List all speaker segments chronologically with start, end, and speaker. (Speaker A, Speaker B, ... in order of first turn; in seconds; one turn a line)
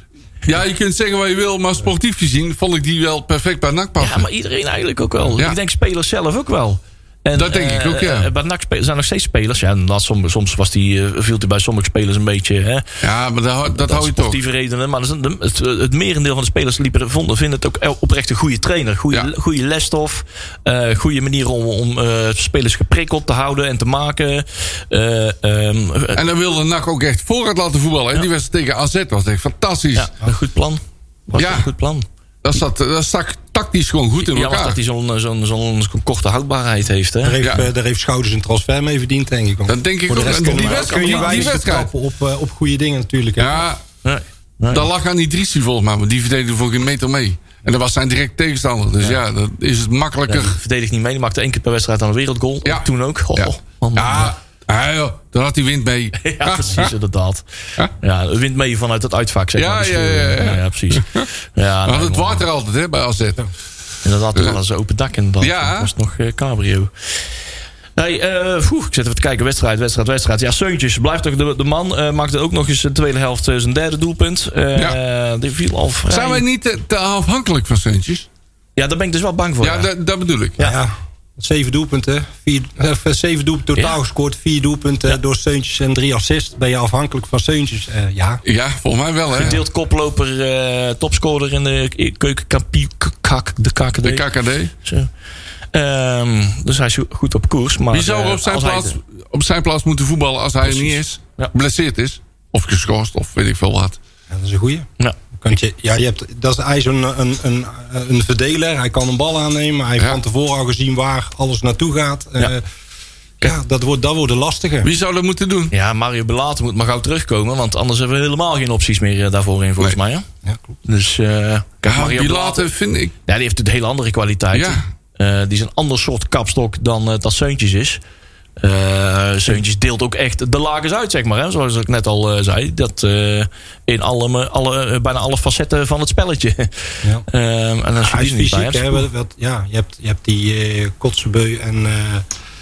Speaker A: 0.4-4.3
Speaker B: 4.0-12.9
Speaker A: 7.3-8.3
Speaker A: 13.0-14.4
Speaker B: 13.7-26.2
Speaker A: 26.1-30.1
Speaker B: 29.9-32.1
Speaker A: 31.4-31.7
Speaker A: 32.4-34.8
Speaker B: 34.2-37.6
Speaker C: 37.2-43.6
Speaker A: 39.7-41.9
Speaker B: 40.2-41.6
Speaker A: 43.4-43.8
Speaker B: 44.0-44.9
Speaker A: 44.7-50.6
Speaker B: 50.3-54.3
Speaker A: 52.6-56.9
Speaker B: 56.2-57.4
Speaker B: 58.0-62.5
Speaker A: 59.6-61.3
Speaker A: 61.9-63.4
Speaker B: 64.0-66.9
Speaker A: 65.4-65.9
Speaker B: 68.0-76.4
Speaker A: 76.1-78.3
Speaker B: 78.8-79.9
Speaker A: 79.6-80.6
Speaker C: 80.6-88.4
Speaker A: 88.4-89.6
Speaker B: 89.3-94.3
Speaker A: 94.0-94.7
Speaker B: 94.8-95.1
Speaker B: 95.7-99.0
Speaker A: 97.9-104.0
Speaker B: 100.6-101.5
Speaker C: 104.3-112.6
Speaker C: 113.4-114.9
Speaker A: 114.8-115.7
Speaker B: 115.7-120.2
Speaker B: 120.8-122.7
Speaker A: 121.8-123.1
Speaker B: 123.3-128.0
Speaker A: 124.5-124.8
Speaker B: 128.6-139.1
Speaker C: 138.0-142.2